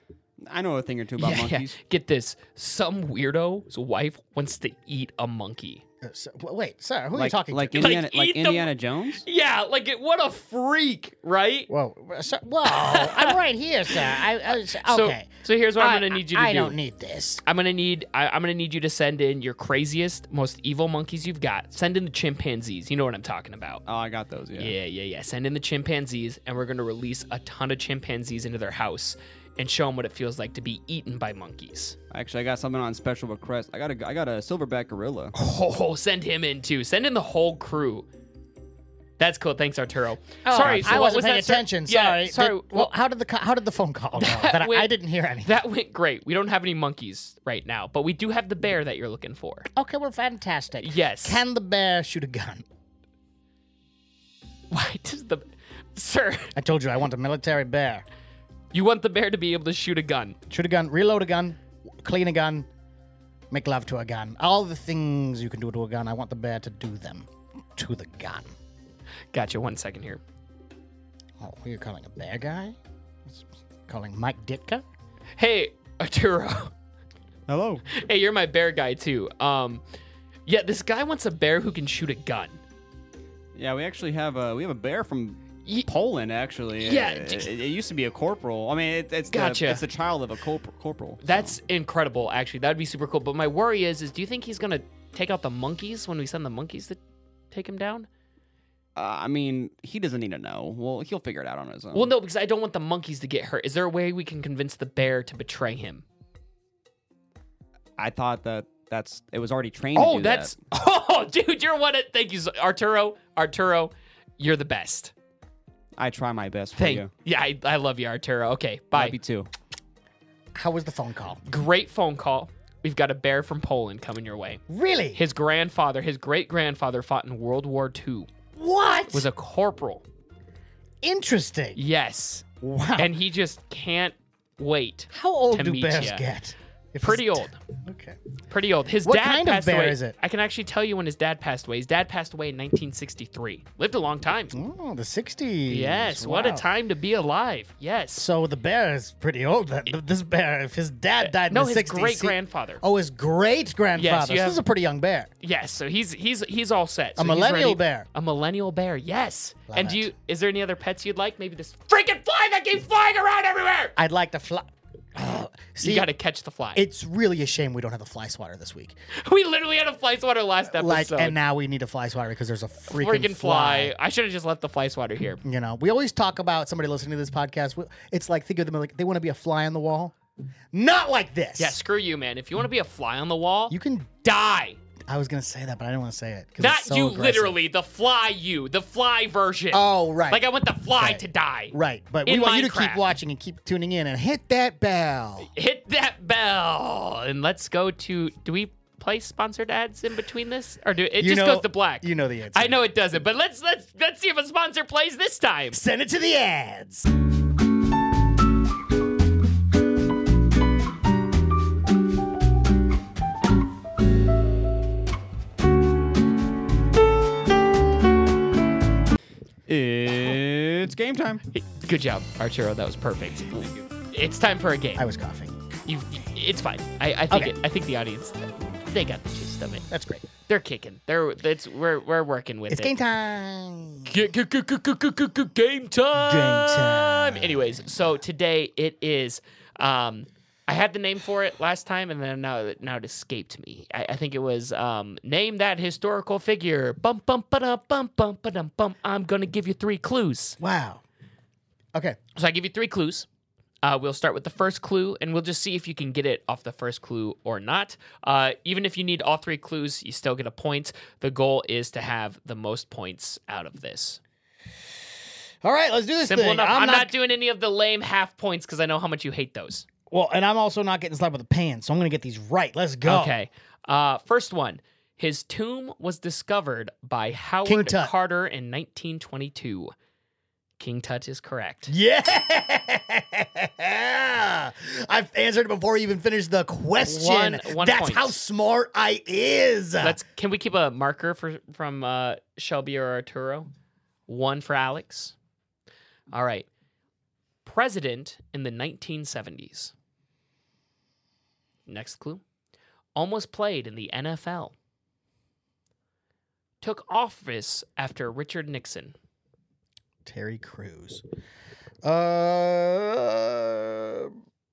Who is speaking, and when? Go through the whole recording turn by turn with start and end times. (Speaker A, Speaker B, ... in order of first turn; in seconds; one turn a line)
Speaker A: 0.4-1.8
Speaker B: 1.2-5.8
Speaker C: 6.0-8.0
Speaker A: 7.1-9.2
Speaker B: 7.8-11.7
Speaker C: 11.7-17.4
Speaker B: 12.7-13.4
Speaker B: 14.7-16.8
Speaker B: 17.4-23.8
Speaker A: 23.9-24.7
Speaker B: 24.6-32.0
Speaker A: 32.1-35.3
Speaker B: 35.3-38.1
Speaker B: 39.2-42.9
Speaker C: 40.4-45.5
Speaker B: 44.2-49.7
Speaker C: 49.7-52.6
Speaker B: 50.8-51.4
Speaker B: 54.7-56.5
Speaker C: 56.5-58.0
Speaker B: 58.7-60.4
Speaker C: 60.5-62.7
Speaker C: 63.5-68.5
Speaker B: 69.3-70.2
Speaker C: 71.4-74.8
Speaker B: 75.4-76.7
Speaker A: 77.5-77.8
Speaker B: 77.9-79.8
Speaker B: 80.5-82.6
Speaker A: 83.5-91.5
Speaker B: 86.8-87.5
Speaker B: 89.3-89.8
Speaker B: 91.2-97.0
Speaker B: 97.5-98.1
Speaker A: 99.0-102.1
Speaker B: 101.9-106.0
Speaker A: 108.0-110.5
Speaker B: 109.9-115.1
Speaker A: 116.0-117.1
Speaker B: 116.8-119.2
Speaker A: 118.9-119.5
Speaker C: 120.5-121.4
Speaker B: 121.5-124.6
Speaker C: 124.7-125.2
Speaker B: 125.1-128.3
Speaker C: 128.6-129.3
Speaker B: 129.1-130.0
Speaker C: 131.0-131.8
Speaker B: 131.8-132.4
Speaker C: 132.6-133.1
Speaker B: 133.0-136.3
Speaker C: 135.1-138.2
Speaker B: 137.0-137.6
Speaker B: 138.5-144.6
Speaker C: 139.0-140.1
Speaker C: 144.5-146.7
Speaker B: 145.7-148.3
Speaker C: 148.2-155.3
Speaker B: 151.2-152.8
Speaker B: 153.9-154.6
Speaker B: 155.4-163.9
Speaker C: 157.2-158.1
Speaker C: 159.7-160.1
Speaker C: 164.0-166.1
Speaker B: 165.8-166.8
Speaker C: 166.7-169.0
Speaker B: 169.1-171.3
Speaker C: 170.7-173.9
Speaker B: 172.9-175.4
Speaker C: 175.4-180.1
Speaker C: 180.7-181.8
Speaker B: 181.6-184.8
Speaker C: 183.7-184.1
Speaker C: 185.1-187.6
Speaker B: 186.6-193.1
Speaker C: 189.7-195.5
Speaker B: 195.5-205.8
Speaker C: 201.2-202.8
Speaker C: 205.7-207.1
Speaker A: 219.7-221.4
Speaker B: 221.5-225.1
Speaker C: 225.0-225.6
Speaker B: 225.8-229.8
Speaker C: 229.9-230.2
Speaker B: 230.5-232.9
Speaker C: 232.7-234.1
Speaker B: 234.1-250.6
Speaker C: 236.2-237.8
Speaker C: 250.6-251.0
Speaker B: 252.3-253.3
Speaker B: 253.8-264.2
Speaker C: 265.6-267.1
Speaker B: 266.2-269.9
Speaker C: 270.1-273.4
Speaker B: 273.0-279.9
Speaker C: 277.6-278.1
Speaker B: 280.8-281.9
Speaker C: 281.9-290.2
Speaker B: 287.0-288.4
Speaker B: 290.0-293.7
Speaker B: 294.3-295.3
Speaker B: 296.3-296.7
Speaker B: 297.6-299.9
Speaker B: 301.9-302.4
Speaker B: 303.1-304.7
Speaker B: 306.8-309.1
Speaker C: 310.2-311.2
Speaker C: 312.0-314.3